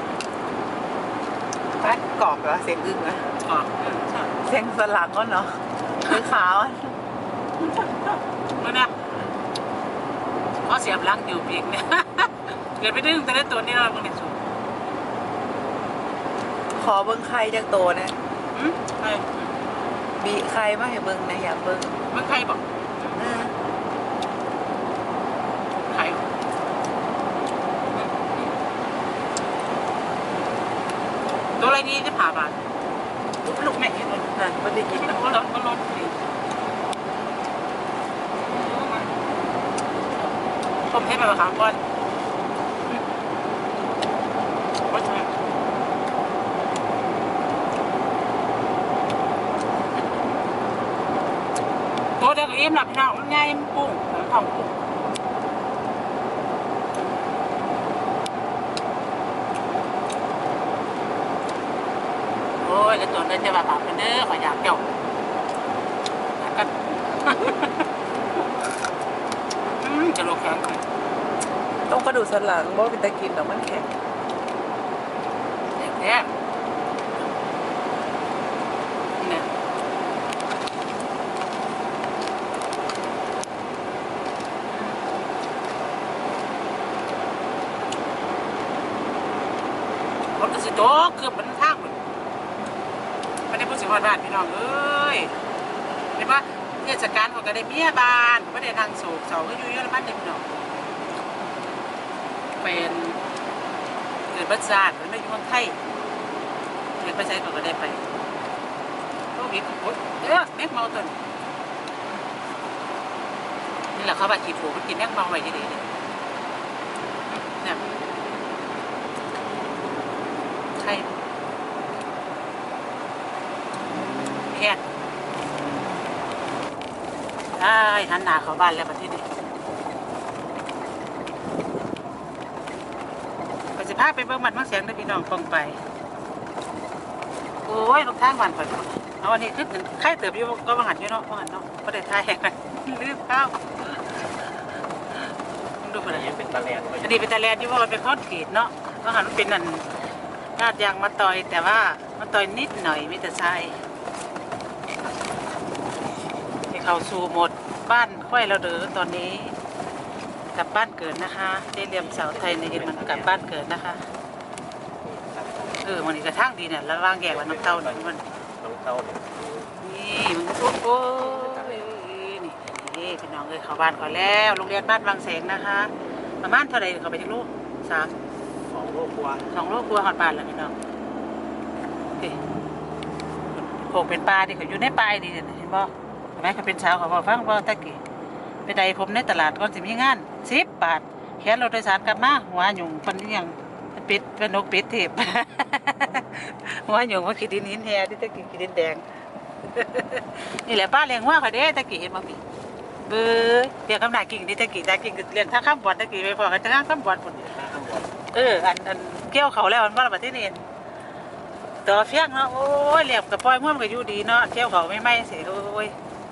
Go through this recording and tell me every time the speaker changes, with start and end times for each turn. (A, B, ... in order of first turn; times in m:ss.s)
0:01.8-0:03.3 A
0:03.4-0:04.3 B
0:04.4-0:06.9 A
0:07.8-0:09.0 B
0:10.6-0:14.4 B
0:16.7-0:18.2 A
0:18.5-0:19.5 B
0:20.2-0:21.9 A
0:22.1-0:23.2 B
0:23.1-0:23.5 A
0:25.8-0:26.2 B
0:28.0-0:28.3 B
0:31.6-0:32.6 B
0:33.4-0:36.2 B
0:38.5-0:39.1 B
0:40.8-0:41.8 B
0:44.8-0:45.3 B
0:52.2-0:54.8 B
1:02.6-1:04.8 B
1:06.4-1:07.8 B
1:09.8-1:10.8 B
1:11.9-1:13.9 A
1:15.7-1:16.3 B
1:19.2-1:19.5 B
1:30.3-1:32.0 B
1:33.5-1:35.4 B
1:36.1-1:40.5 B
1:42.6-1:43.2 B
1:44.2-1:45.8 B
1:47.0-1:48.0 B
1:49.3-1:51.2 B
1:53.9-1:55.8 B
1:57.4-1:57.8 B
2:00.8-2:01.2 B
2:04.5-2:04.8 B
2:07.5-2:09.2 B
2:13.8-2:15.8 B
2:17.6-2:24.6 B
2:25.8-2:29.9 B
2:26.1-2:27.0 C
2:30.6-2:33.8 B
2:36.7-2:39.6 B
2:40.5-2:44.0 B
2:42.2-2:43.2 C
2:45.1-2:45.8 C
2:45.8-2:48.2 B
2:48.6-2:49.4 C
2:49.8-2:58.1 B
2:58.7-2:59.4 C
2:59.5-3:00.7 B
3:03.5-3:08.0 B
3:08.6-3:19.0 B
3:19.6-3:22.4 B
3:23.0-3:30.6 B
3:31.8-3:35.9 B